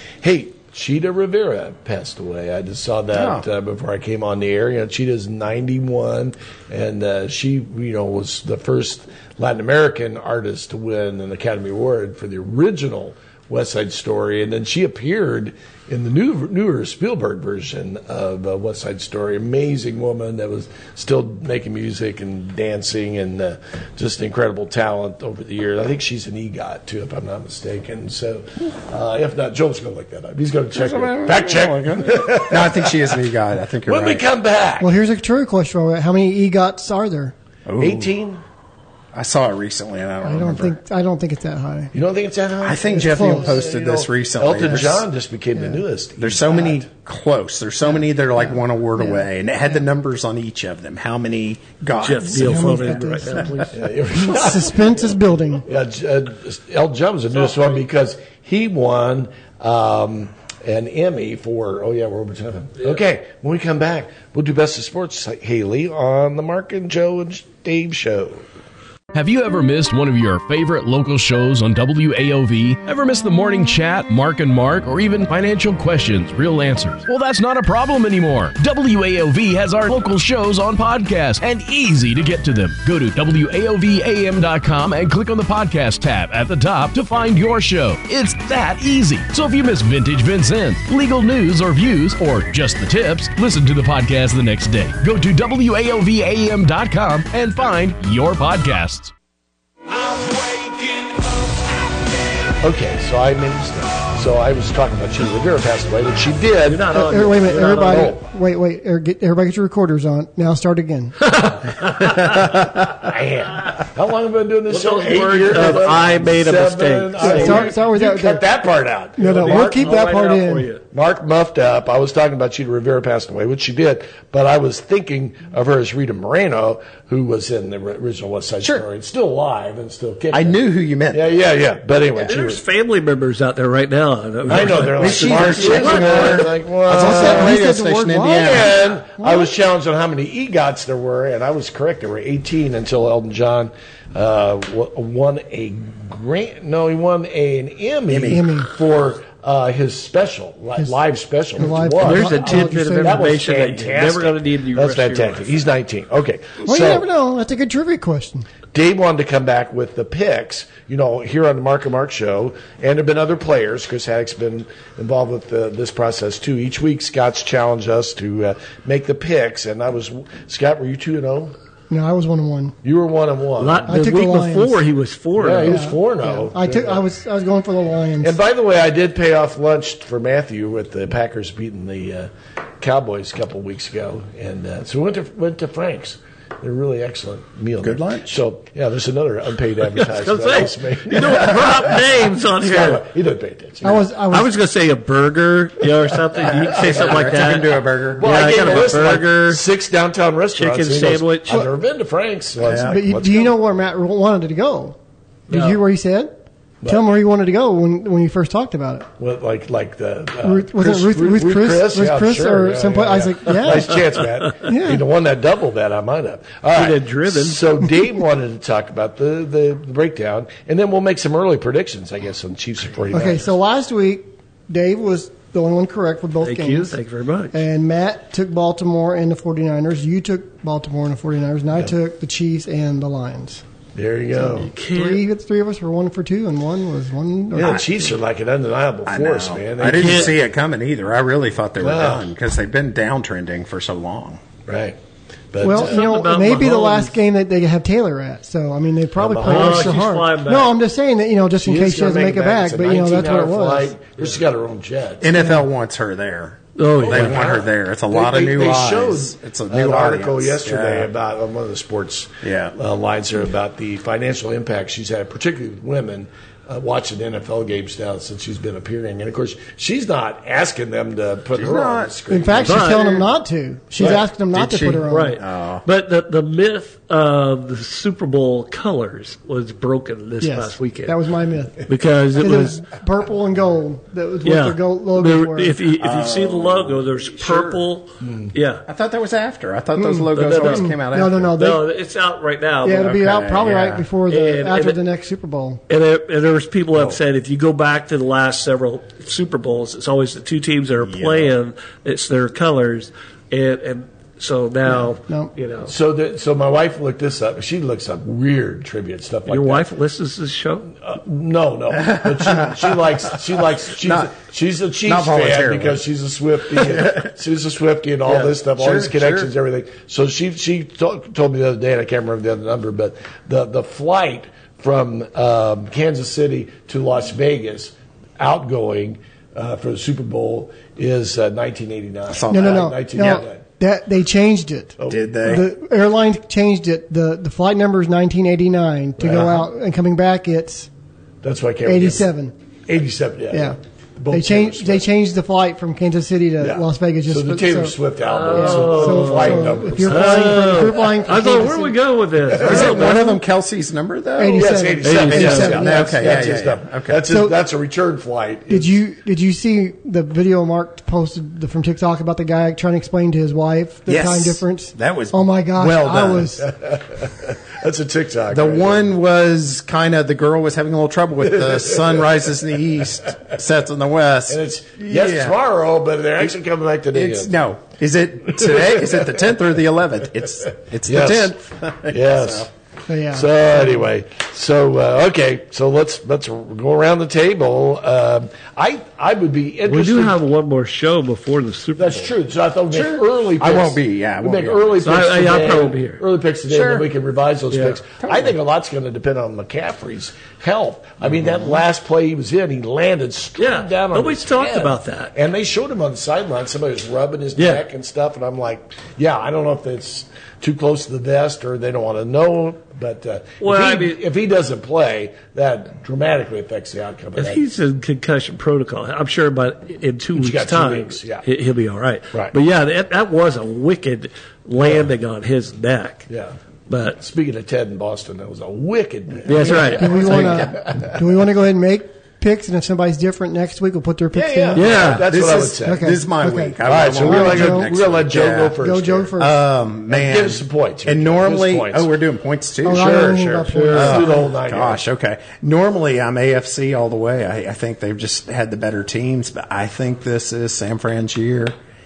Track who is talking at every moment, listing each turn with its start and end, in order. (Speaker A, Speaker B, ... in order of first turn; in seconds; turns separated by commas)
Speaker A: 0.2-33.2, Speaker B: 3.1-3.5, Speaker B: 30.7-34.2, Speaker A: 33.9-35.0, Speaker C: 34.8-37.3, Speaker B: 37.7-38.1, Speaker A: 37.8-38.4, Speaker B: 39.1-40.8, Speaker C: 40.2-41.9, Speaker A: 41.9-46.9, Speaker B: 42.6-45.0, Speaker C: 43.0-43.6, Speaker C: 45.6-45.8, Speaker B: 46.2-53.5, Speaker C: 49.0-49.2, Speaker D: 52.0-53.8, Speaker C: 52.3-55.7, Speaker A: 53.7-55.1, Speaker A: 55.7-68.5, Speaker E: 69.1-99.1, Speaker A: 100.2-100.8, Speaker A: 102.6-108.2, Speaker D: 106.7-108.1, Speaker C: 106.9-111.4, Speaker D: 111.2-112.5, Speaker B: 112.2-112.7, Speaker A: 112.9-119.9, Speaker D: 114.7-117.7, Speaker C: 117.2-118.4, Speaker C: 119.2-120.7, Speaker D: 119.2-120.8, Speaker A: 120.9-130.6, Speaker B: 130.3-131.2, Speaker A: 131.1-132.6, Speaker D: 132.2-136.4, Speaker A: 134.5-137.6, Speaker B: 134.6-138.8, Speaker C: 136.9-139.5, Speaker A: 138.3-157.1, Speaker B: 148.1-148.4, Speaker C: 148.3-148.7, Speaker C: 151.6-153.2, Speaker D: 152.0-155.5, Speaker C: 156.7-158.5, Speaker A: 158.7-171.5, Speaker C: 171.9-172.8, Speaker A: 172.8-173.9, Speaker D: 173.6-175.8, Speaker C: 173.9-174.8, Speaker A: 175.4-177.0, Speaker C: 175.6-178.3, Speaker A: 178.2-182.3, Speaker A: 182.8-194.1, Speaker B: 187.8-188.4, Speaker D: 189.9-193.1, Speaker C: 193.8-194.5, Speaker D: 194.3-199.6, Speaker B: 196.5-199.0, Speaker A: 196.5-197.7, Speaker A: 198.2-203.6, Speaker D: 200.6-201.7, Speaker B: 202.6-203.0, Speaker C: 202.8-205.0, Speaker C: 205.5-206.3, Speaker D: 205.5-205.8, Speaker A: 206.8-207.1, Speaker C: 206.9-209.1, Speaker A: 209.2-223.5, Speaker C: 210.4-215.0, Speaker D: 216.7-217.6, Speaker C: 223.1-227.0, Speaker D: 226.4-227.6, Speaker C: 227.5-233.6, Speaker A: 233.9-234.7, Speaker C: 234.3-238.2, Speaker D: 234.6-235.2, Speaker A: 237.5-240.4, Speaker B: 239.1-244.4, Speaker D: 239.9-240.3, Speaker A: 241.8-242.3, Speaker A: 244.7-245.0, Speaker A: 245.5-246.1, Speaker C: 245.6-253.9, Speaker D: 245.6-247.2, Speaker A: 249.2-250.0, Speaker D: 249.4-250.8, Speaker A: 251.6-255.3, Speaker B: 255.2-261.1, Speaker C: 255.4-255.6, Speaker D: 256.8-257.4, Speaker A: 257.0-272.9, Speaker B: 262.4-262.8, Speaker B: 271.6-273.3, Speaker C: 272.3-275.4, Speaker D: 272.6-273.2, Speaker B: 274.0-275.8, Speaker D: 275.1-281.2, Speaker C: 280.4-285.8, Speaker D: 281.9-282.8, Speaker D: 284.4-288.8, Speaker B: 286.0-287.8, Speaker A: 288.2-288.5, Speaker B: 288.9-291.5, Speaker C: 290.0-291.9, Speaker D: 290.3-290.9, Speaker D: 291.6-293.2, Speaker C: 292.8-295.8, Speaker B: 293.0-294.1, Speaker D: 294.3-295.0, Speaker D: 295.9-305.9, Speaker B: 301.0-301.5, Speaker A: 305.9-309.8, Speaker D: 309.5-310.9, Speaker A: 311.0-333.6, Speaker B: 311.9-314.3, Speaker B: 315.1-316.0, Speaker B: 316.8-317.3, Speaker B: 318.8-319.5, Speaker B: 332.3-333.4, Speaker C: 332.5-340.9, Speaker A: 335.0-335.7, Speaker B: 335.1-335.7, Speaker A: 339.2-339.7, Speaker A: 341.4-342.3, Speaker C: 341.9-342.5, Speaker A: 342.9-345.1, Speaker C: 344.3-347.9, Speaker A: 346.6-350.9, Speaker D: 348.2-353.2, Speaker C: 348.5-352.0, Speaker A: 352.5-353.0, Speaker C: 352.6-353.4, Speaker B: 352.6-357.3, Speaker C: 354.4-356.6, Speaker A: 354.5-359.0, Speaker D: 355.0-355.8, Speaker C: 357.3-357.6, Speaker C: 358.7-366.7, Speaker B: 364.1-366.6, Speaker A: 366.6-369.1, Speaker B: 368.5-375.6, Speaker A: 371.7-372.2, Speaker A: 374.5-377.6, Speaker B: 377.1-382.7, Speaker A: 378.6-379.5, Speaker A: 381.1-381.6, Speaker A: 382.1-382.7, Speaker C: 383.1-383.8, Speaker A: 383.3-390.4, Speaker D: 389.9-392.3, Speaker A: 392.0-417.6, Speaker B: 392.9-395.1, Speaker D: 395.0-396.2, Speaker B: 396.7-397.1, Speaker D: 397.7-398.0, Speaker B: 398.2-398.6, Speaker B: 401.3-401.7, Speaker D: 403.6-405.3, Speaker D: 407.6-407.8, Speaker D: 413.6-414.2, Speaker D: 417.4-426.3, Speaker A: 420.3-421.5, Speaker A: 426.3-426.5, Speaker D: 426.9-427.2, Speaker A: 427.2-431.5, Speaker D: 429.4-430.6, Speaker C: 429.5-437.9, Speaker A: 434.3-436.2, Speaker D: 434.8-435.3, Speaker B: 434.9-438.8, Speaker A: 436.8-439.3, Speaker C: 438.8-439.6, Speaker B: 439.4-443.4, Speaker A: 440.1-442.1, Speaker C: 442.9-444.5, Speaker A: 442.9-445.0, Speaker B: 443.9-451.7